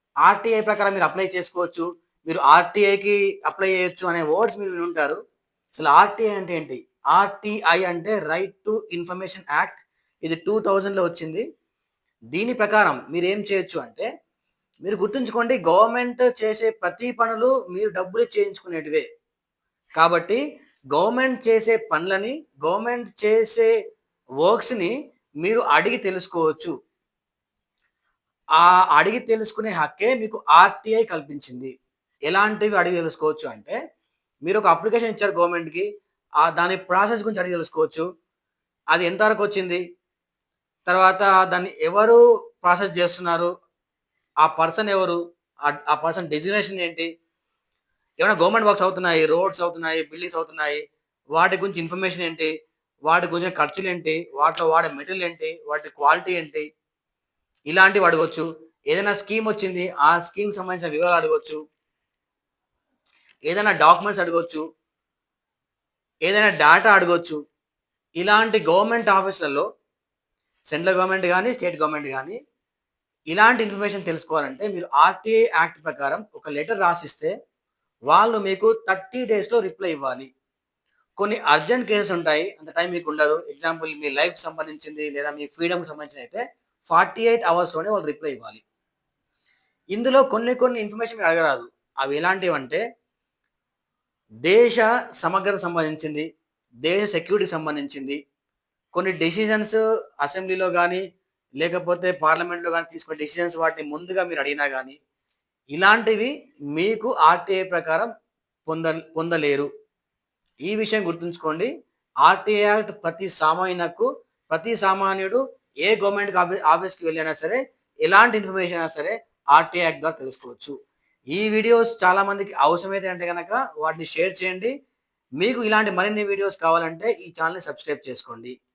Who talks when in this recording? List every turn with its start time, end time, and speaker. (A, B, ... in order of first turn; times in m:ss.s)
0:00.3-0:05.2 A
0:05.8-0:11.4 A
0:12.3-0:14.1 A
0:14.8-0:19.0 A
0:20.0-0:20.4 A
0:20.9-0:23.7 A
0:24.4-0:26.7 A
0:28.6-0:31.7 A
0:32.3-0:33.8 A
0:34.5-0:35.9 A
0:36.4-0:38.1 A
0:38.9-0:39.8 A
0:40.9-0:43.5 A
0:44.4-0:45.2 A
0:45.7-0:47.1 A
0:48.2-0:50.8 A
0:51.4-0:52.5 A
0:53.1-0:56.7 A
0:57.7-1:01.6 A
1:03.5-1:04.6 A
1:06.3-1:07.4 A
1:08.2-1:09.7 A
1:10.7-1:12.4 A
1:13.3-1:17.3 A
1:18.1-1:20.3 A
1:21.2-1:28.6 A
1:29.9-1:32.8 A
1:34.5-1:36.3 A
1:36.9-1:38.2 A
1:38.9-1:41.0 A
1:41.6-1:45.0 A
1:45.7-1:48.1 A
1:48.7-1:49.7 A
1:50.7-1:51.7 A
1:52.2-2:00.8 A
2:01.3-2:04.7 A
2:05.4-2:08.5 A